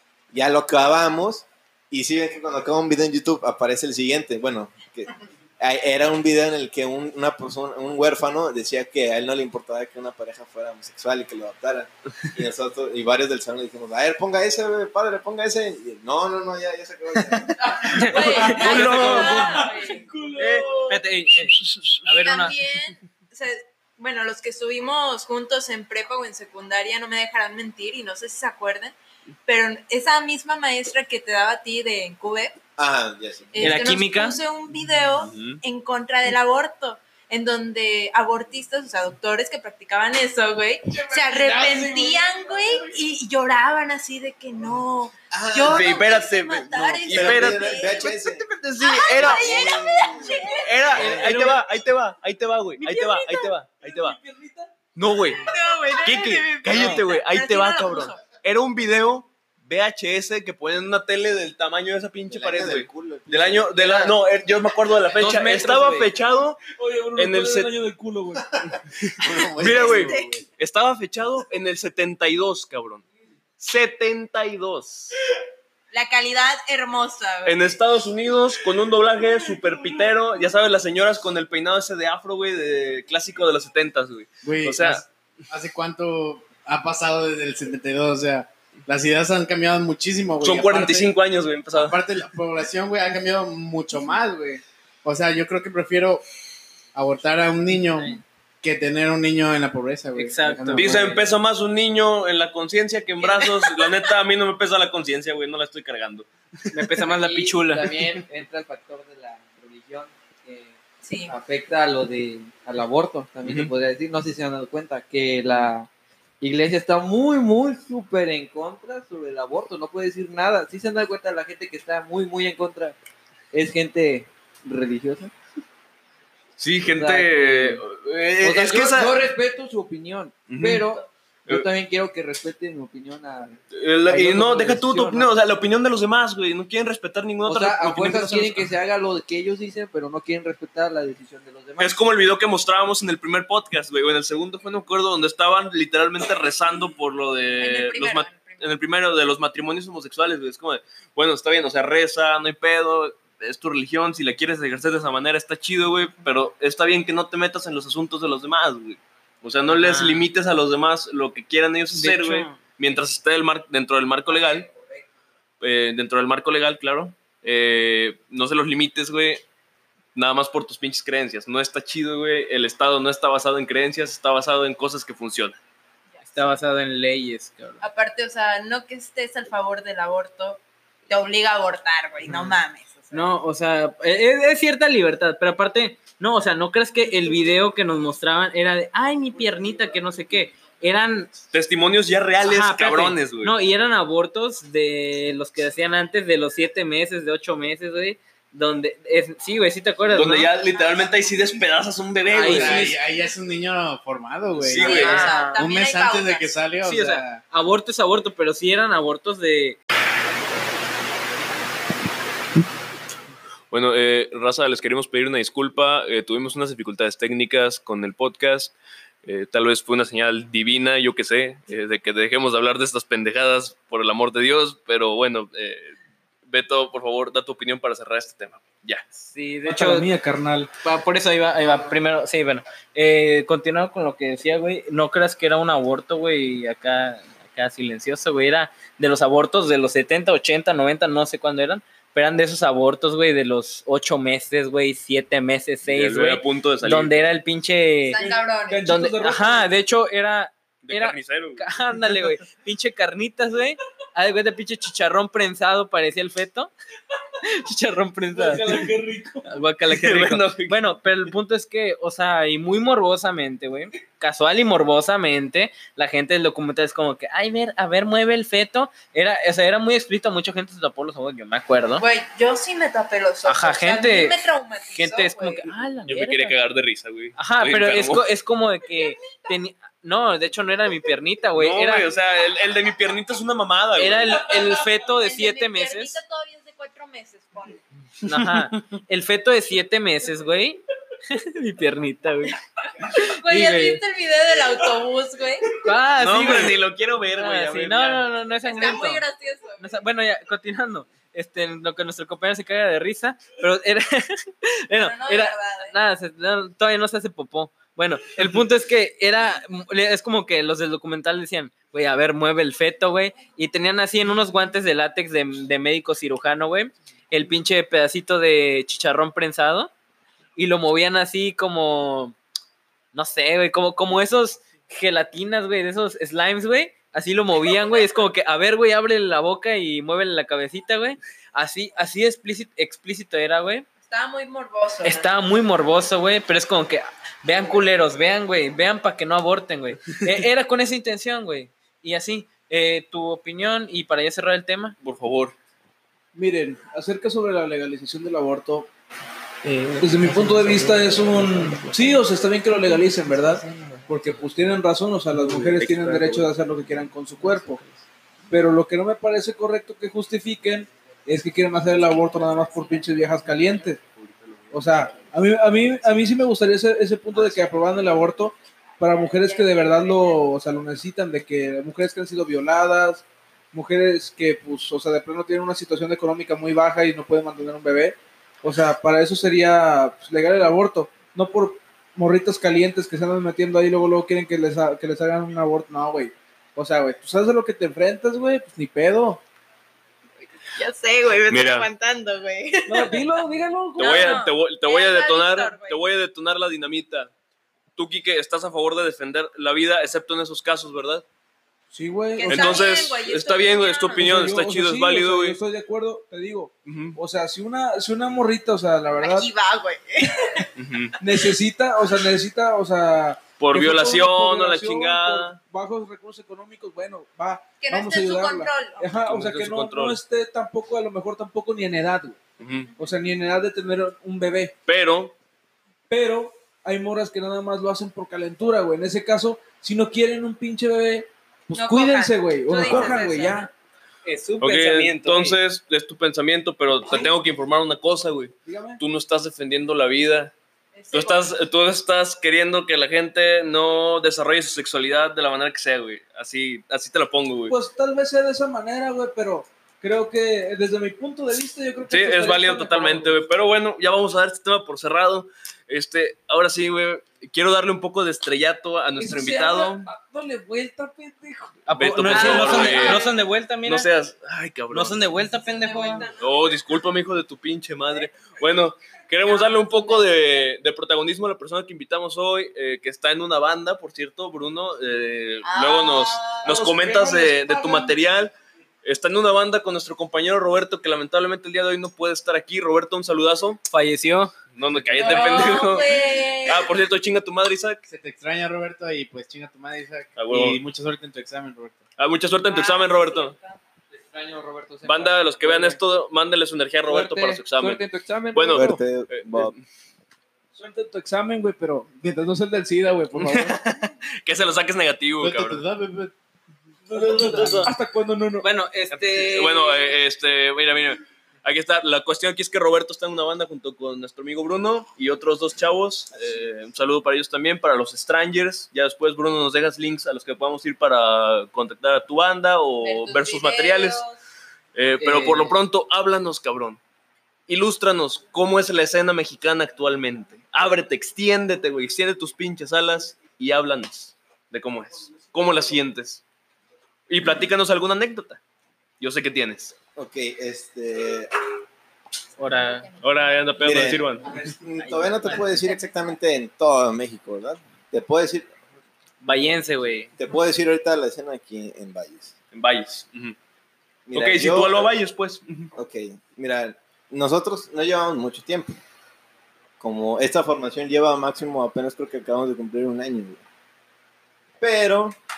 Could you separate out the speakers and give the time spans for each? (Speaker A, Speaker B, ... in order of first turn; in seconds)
Speaker A: 0.3-17.8, 32.8-33.8, 45.3-46.1, 47.0-48.5, 49.1-51.5, 62.3-64.2, 69.2-70.4, 498.7-499.7, 540.1-541.5, 543.8-548.7, 550.4-552.5, 554.3-555.1, 556.0-559.0, 560.0-563.6, 564.8-565.4
Speaker B: 17.8-19.2, 20.9-22.6, 33.6-34.4, 50.9-51.6, 56.7-57.0, 65.1-66.1, 100.1-101.2, 106.7-108.0, 159.7-160.3, 161.9-162.6, 176.2-177.8, 183.1-191.3, 192.4-200.5, 202.3-203.0, 204.8-205.6, 206.8-209.8, 229.3-230.1, 230.8-248.2, 248.8-256.7, 257.4-258.8, 259.4-272.1, 273.4-274.4, 274.9-276.6, 277.4-282.1, 283.9-286.2, 288.2-294.0, 295.8-296.8, 297.3-299.2, 299.8-319.9, 320.6-322.4, 323.1-333.9, 335.0-344.9, 349.6-350.9, 434.2-435.6, 461.9-464.1, 464.9-466.3, 483.9-484.5, 508.6-510.0, 525.2-525.7, 542.6-543.1, 544.5-545.8, 549.4-550.3
Speaker C: 18.0-19.7, 20.4-20.9, 21.6-22.0, 35.2-35.6, 45.6-54.2, 54.9-66.6, 67.2-67.7, 69.0-73.0, 73.6-75.2, 77.4-85.0, 90.4-92.0, 100.7-106.3, 113.4-113.7, 126.6-129.2, 130.5-131.7, 133.7-138.7, 141.8-164.7, 165.6-169.4, 170.1-175.6, 191.5-193.5, 200.1-202.9, 204.5-205.3, 213.7-225.9, 226.5-229.1, 245.9-247.2, 250.8-251.6, 259.9-260.8, 276.0-278.2, 281.6-284.4, 288.2-288.8, 296.1-298.3, 345.0-345.6, 355.8-356.4, 391.5-391.9, 394.0-397.3, 397.9-401.2, 402.4-405.6, 406.8-407.2, 410.8-411.2, 413.6-415.6, 419.2-420.2, 422.6-422.9, 424.9-425.3, 432.9-433.2, 434.6-440.5, 441.1-447.7, 452.1-460.1, 461.9-463.3, 463.8-465.3, 466.4-478.5, 479.0-483.8, 484.7-488.0, 490.4-490.8, 492.2-493.6, 495.0-499.8, 503.3-505.8, 507.1-507.9, 509.1-524.2, 524.9-527.0, 527.7-536.4, 537.3-538.6, 539.2-540.0, 543.2-544.5, 552.7-553.5, 554.3-555.9
Speaker D: 18.1-20.1, 22.2-32.6, 33.5-48.2, 48.8-50.8, 52.8-53.5, 55.3-58.2, 69.6-70.4, 75.9-77.7, 103.2-103.9, 111.0-111.3, 147.6-148.7, 177.8-183.3, 204.8-206.5, 248.1-248.9, 272.0-275.7, 285.1-287.8, 293.1-295.7, 298.6-300.0, 304.9-306.0, 334.0-335.3, 369.2-370.4, 390.8-393.3, 394.0-396.0, 402.3-404.4, 409.2-410.7, 417.8-419.1, 431.7-433.7, 440.9-441.5, 462.3-463.3, 465.5-466.5, 469.4-470.3, 475.6-477.6, 485.1-487.0, 492.7-493.8, 523.0-524.4
Speaker E: 18.2-21.0, 53.8-54.7, 66.7-68.5, 229.7-230.7, 248.2-249.7, 258.3-259.5, 346.3-348.9, 350.0-357.8, 358.5-364.0, 364.7-389.4, 392.9-394.4, 401.9-402.8, 404.2-409.5, 411.2-422.4, 423.0-424.7, 426.1-433.7, 438.6-439.0, 447.7-453.4, 459.2-461.9, 500.7-503.8, 507.1-508.7
Speaker F: 41.4-41.8, 69.3-70.0, 84.4-91.1, 91.7-96.2, 96.9-101.2, 202.4-207.4, 488.1-492.0, 505.4-506.3
Speaker G: 107.1-115.9, 116.4-123.0, 123.5-125.3, 126.9-127.8, 128.4-135.3, 137.4-142.0, 164.3-164.9, 351.9-352.1, 353.0-354.0, 357.4-357.8, 494.1-496.0, 497.0-499.0